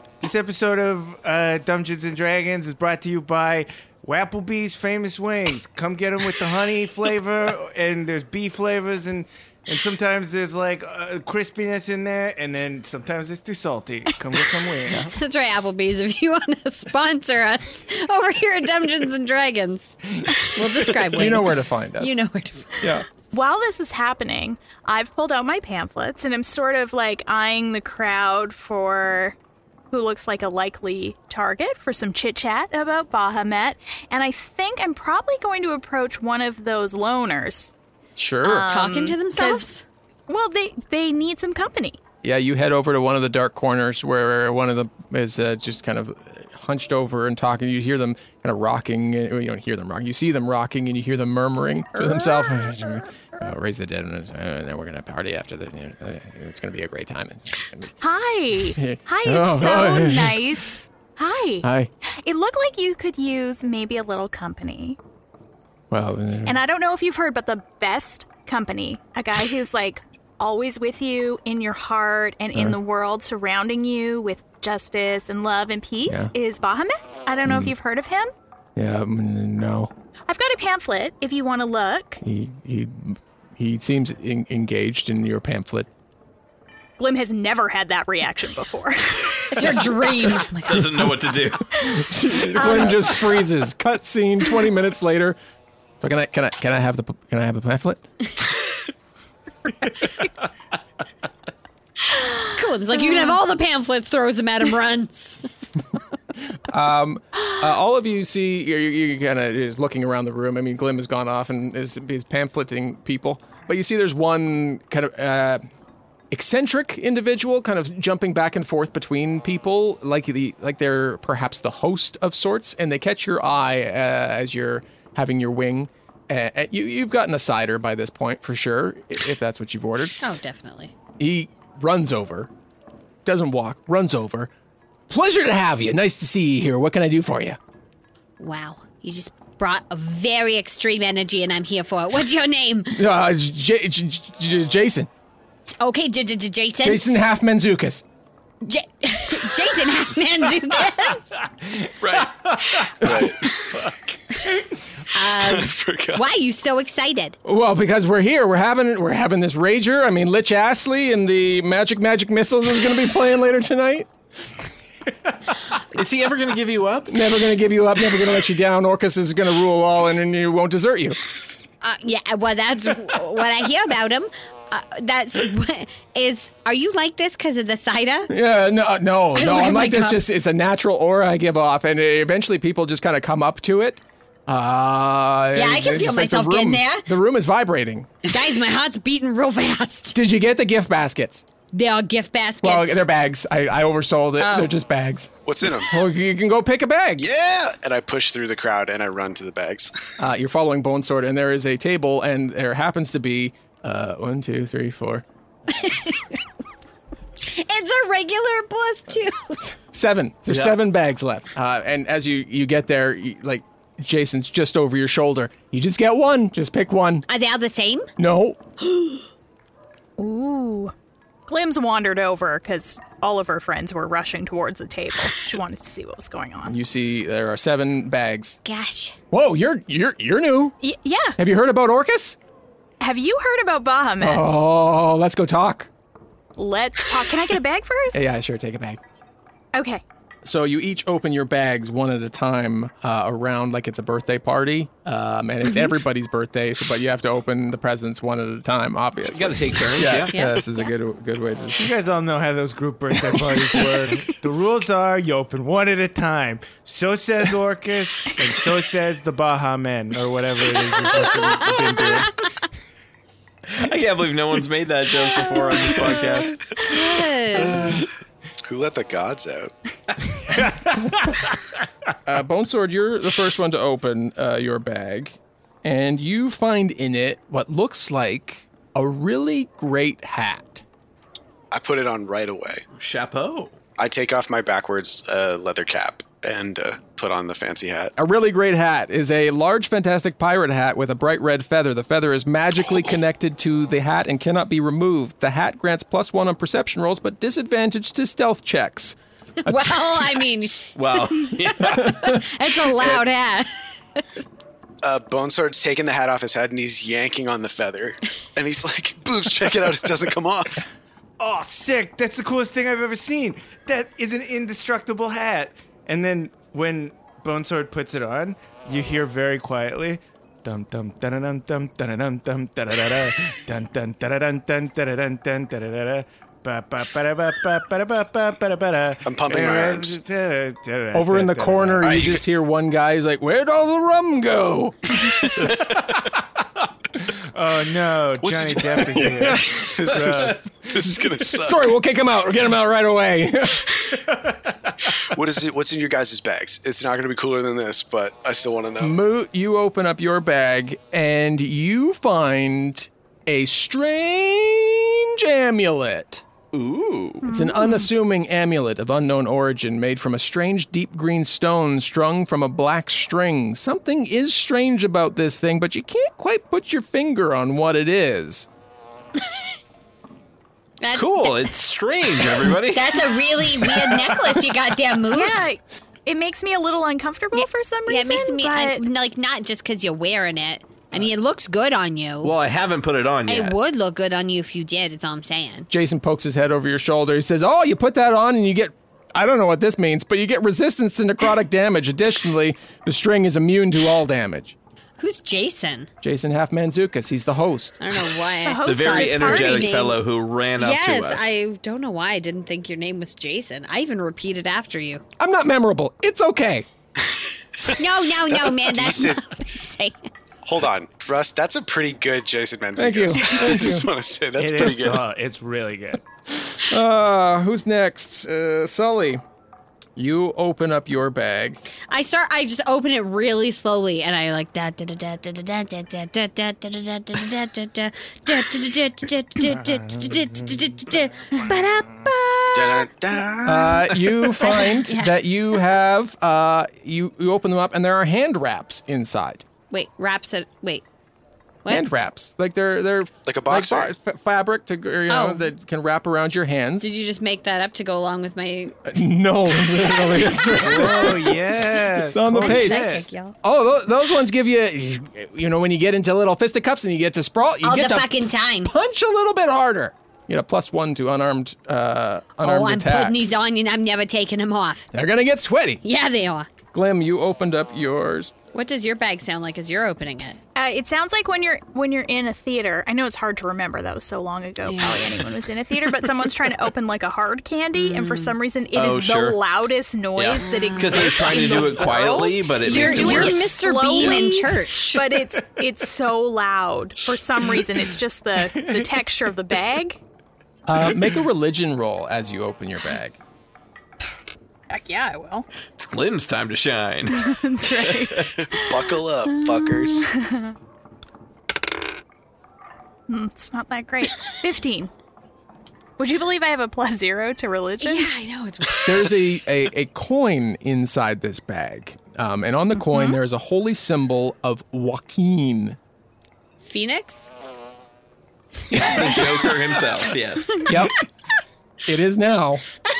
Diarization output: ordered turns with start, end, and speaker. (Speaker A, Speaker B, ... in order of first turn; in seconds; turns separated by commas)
Speaker A: 0.2-15.1, Speaker B: 14.9-22.9, Speaker C: 21.1-22.2, Speaker C: 22.8-23.1, Speaker D: 23.3-29.4, Speaker D: 29.9-37.7, Speaker C: 38.1-38.7, Speaker D: 38.4-39.7, Speaker B: 38.7-39.8, Speaker D: 40.3-42.0, Speaker C: 42.2-57.9, Speaker D: 58.0-65.0, Speaker C: 58.7-60.5, Speaker C: 61.6-61.9, Speaker C: 65.9-66.6, Speaker D: 66.4-78.3, Speaker C: 77.4-77.7, Speaker C: 78.8-79.9, Speaker D: 80.3-82.2, Speaker C: 82.2-85.9, Speaker D: 87.0-89.5, Speaker B: 89.5-91.1, Speaker E: 90.6-91.7, Speaker C: 91.8-95.4, Speaker D: 92.5-93.1, Speaker C: 96.0-98.0, Speaker B: 102.5-105.5, Speaker C: 106.7-115.6, Speaker C: 116.3-130.2, Speaker B: 130.2-130.9, Speaker C: 131.2-132.5, Speaker C: 133.2-134.5, Speaker C: 135.1-137.6, Speaker B: 138.4-143.0, Speaker C: 142.9-145.1, Speaker B: 145.8-147.0, Speaker C: 146.8-148.0, Speaker B: 148.6-151.3, Speaker E: 152.0-152.4, Speaker E: 153.0-153.3, Speaker F: 153.0-153.8, Speaker B: 155.1-157.4, Speaker F: 155.4-156.2, Speaker C: 157.4-164.1, Speaker E: 165.9-167.2, Speaker C: 167.1-171.2, Speaker B: 171.8-178.3, Speaker C: 178.3-188.2, Speaker B: 179.3-180.2, Speaker B: 185.5-187.1, Speaker B: 188.3-190.2, Speaker C: 190.1-191.4, Speaker B: 191.7-193.0, Speaker C: 192.6-195.3, Speaker B: 194.4-194.7, Speaker F: 195.4-195.9, Speaker C: 195.8-197.3, Speaker F: 197.2-200.1, Speaker C: 200.2-205.2, Speaker B: 205.7-206.4, Speaker B: 207.4-209.6, Speaker C: 209.6-217.2, Speaker E: 210.5-210.7, Speaker B: 217.3-218.1, Speaker C: 218.2-218.6, Speaker B: 218.8-219.2, Speaker D: 220.2-220.9, Speaker D: 221.5-226.7, Speaker C: 226.7-228.6, Speaker B: 228.6-229.2, Speaker C: 229.3-230.8, Speaker D: 230.8-231.4, Speaker C: 231.4-232.4, Speaker D: 233.0-234.4, Speaker C: 234.2-235.9, Speaker D: 236.6-238.3, Speaker C: 238.1-239.0, Speaker D: 239.7-240.0, Speaker C: 240.4-251.9, Speaker E: 249.2-250.3, Speaker B: 250.3-250.9, Speaker A: 251.8-262.3, Speaker E: 263.7-266.6, Speaker B: 265.4-268.0, Speaker F: 267.7-268.0, Speaker F: 268.6-269.7, Speaker A: 270.5-271.5, Speaker C: 272.2-280.8, Speaker F: 281.7-282.8, Speaker E: 282.9-283.8, Speaker F: 284.0-288.1, Speaker C: 288.2-300.7, Speaker B: 299.6-304.2, Speaker E: 300.9-302.2, Speaker C: 301.9-302.4, Speaker F: 305.0-310.8, Speaker A: 311.4-332.2, Speaker F: 329.2-330.2, Speaker C: 331.1-335.0, Speaker F: 332.0-332.4, Speaker A: 337.5-341.1, Speaker F: 338.4-341.9, Speaker C: 339.2-343.9, Speaker F: 345.2-349.1, Speaker C: 349.0-356.4, Speaker E: 356.7-357.5, Speaker D: 357.4-358.1, Speaker C: 357.4-368.7, Speaker B: 371.0-371.8, Speaker E: 371.1-373.2, Speaker B: 372.4-375.7, Speaker D: 375.3-379.0, Speaker B: 377.5-382.5, Speaker E: 382.4-383.8, Speaker B: 383.5-385.9, Speaker C: 385.9-394.8, Speaker B: 395.2-396.1, Speaker C: 396.2-398.0, Speaker B: 398.0-400.2, Speaker D: 398.6-400.1, Speaker E: 398.8-401.6, Speaker B: 400.8-405.2, Speaker C: 405.4-406.9, Speaker B: 407.9-410.2, Speaker F: 408.4-409.4, Speaker F: 410.6-415.2, Speaker C: 412.9-414.1, Speaker A: 414.6-416.2, Speaker C: 416.8-419.4, Speaker C: 420.1-421.8, Speaker B: 422.1-433.1, Speaker A: 429.7-430.6, Speaker F: 432.7-434.4, Speaker C: 433.6-439.6, Speaker B: 434.6-435.4, Speaker B: 439.9-441.0, Speaker C: 441.9-447.1, Speaker F: 443.4-444.1, Speaker B: 445.3-445.6, Speaker B: 447.0-449.1, Speaker C: 449.1-463.5, Speaker B: 450.3-451.4, Speaker A: 450.8-453.2, Speaker B: 452.5-453.6, Speaker B: 457.8-458.9, Speaker B: 462.6-465.1, Speaker C: 465.1-466.0, Speaker B: 466.0-466.7, Speaker C: 466.9-468.5, Speaker B: 468.7-470.6, Speaker D: 470.7-490.2, Speaker B: 474.8-475.4, Speaker B: 478.0-478.6, Speaker E: 478.9-479.6, Speaker E: 480.4-484.4, Speaker B: 480.6-482.3, Speaker B: 482.8-485.3, Speaker A: 488.8-489.0, Speaker C: 490.9-493.4, Speaker D: 494.9-495.7, Speaker E: 496.0-498.5, Speaker D: 497.3-500.7, Speaker F: 498.7-500.3, Speaker D: 503.3-505.1, Speaker D: 506.2-508.3, Speaker B: 508.0-509.4, Speaker C: 509.0-516.0, Speaker B: 516.8-517.5, Speaker C: 518.9-519.3, Speaker E: 519.0-520.9, Speaker C: 520.8-521.1, Speaker C: 522.0-522.8